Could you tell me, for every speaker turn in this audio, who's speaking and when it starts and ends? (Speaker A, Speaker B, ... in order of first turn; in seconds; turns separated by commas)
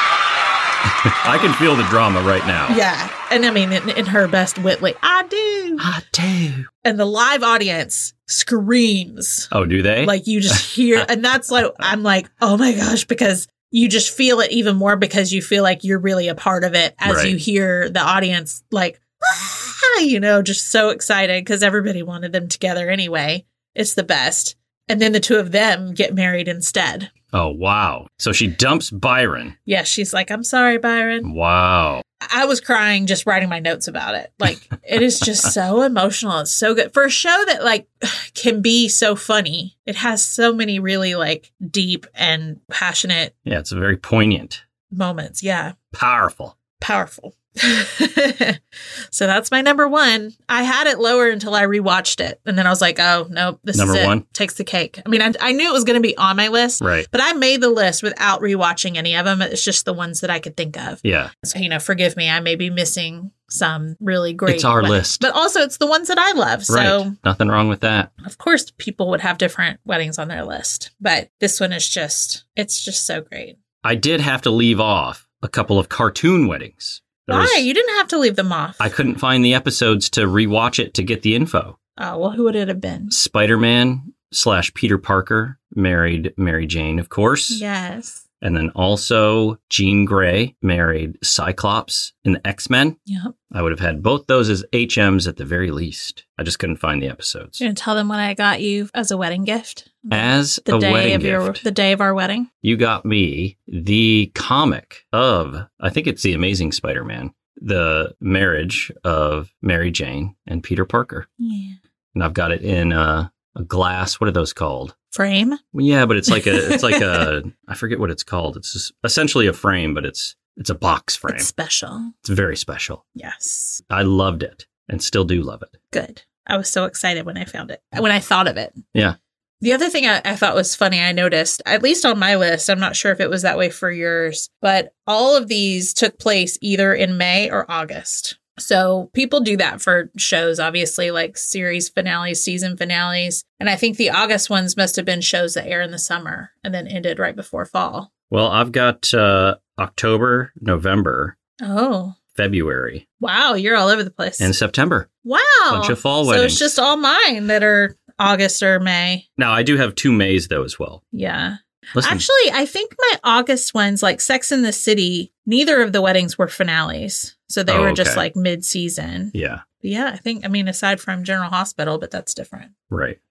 Speaker A: 0.9-2.8, Speaker B: 2.7-5.8, Speaker A: 5.8-6.7, Speaker B: 6.8-9.5, Speaker A: 9.5-11.0, Speaker B: 10.0-27.1, Speaker A: 17.0-17.4, Speaker A: 27.3-29.5, Speaker B: 29.6-31.3, Speaker A: 31.2-32.0, Speaker B: 32.2-43.3, Speaker A: 43.4-44.6, Speaker B: 44.9-45.7, Speaker A: 45.9-46.6, Speaker B: 46.8-48.6, Speaker B: 49.1-67.1, Speaker A: 53.7-54.2, Speaker A: 56.8-57.1, Speaker A: 61.0-61.3, Speaker A: 64.5-65.2, Speaker A: 66.7-68.1, Speaker B: 68.2-73.6, Speaker A: 73.8-77.7, Speaker B: 77.3-78.9, Speaker A: 78.8-81.8, Speaker B: 82.0-83.1, Speaker A: 83.1-87.6, Speaker B: 87.5-88.2, Speaker A: 88.4-93.0, Speaker B: 93.1-93.3, Speaker A: 93.5-97.6, Speaker B: 97.6-102.5, Speaker A: 100.1-101.6, Speaker A: 102.6-111.3, Speaker B: 111.4-111.8, Speaker A: 112.1-114.9, Speaker B: 115.1-115.6, Speaker A: 115.7-121.5, Speaker B: 116.3-117.2, Speaker B: 121.3-122.1, Speaker A: 122.2-123.0, Speaker B: 123.2-123.8, Speaker A: 123.9-125.7, Speaker B: 125.9-128.8, Speaker B: 129.6-148.1, Speaker A: 148.3-151.3, Speaker B: 151.6-152.2, Speaker A: 152.3-153.0, Speaker B: 153.2-154.5, Speaker A: 154.4-155.1, Speaker B: 155.2-159.2, Speaker A: 155.7-156.7, Speaker A: 159.4-161.0, Speaker B: 161.1-172.7, Speaker A: 161.9-162.2, Speaker A: 167.7-168.2, Speaker A: 169.3-169.6, Speaker A: 172.9-173.2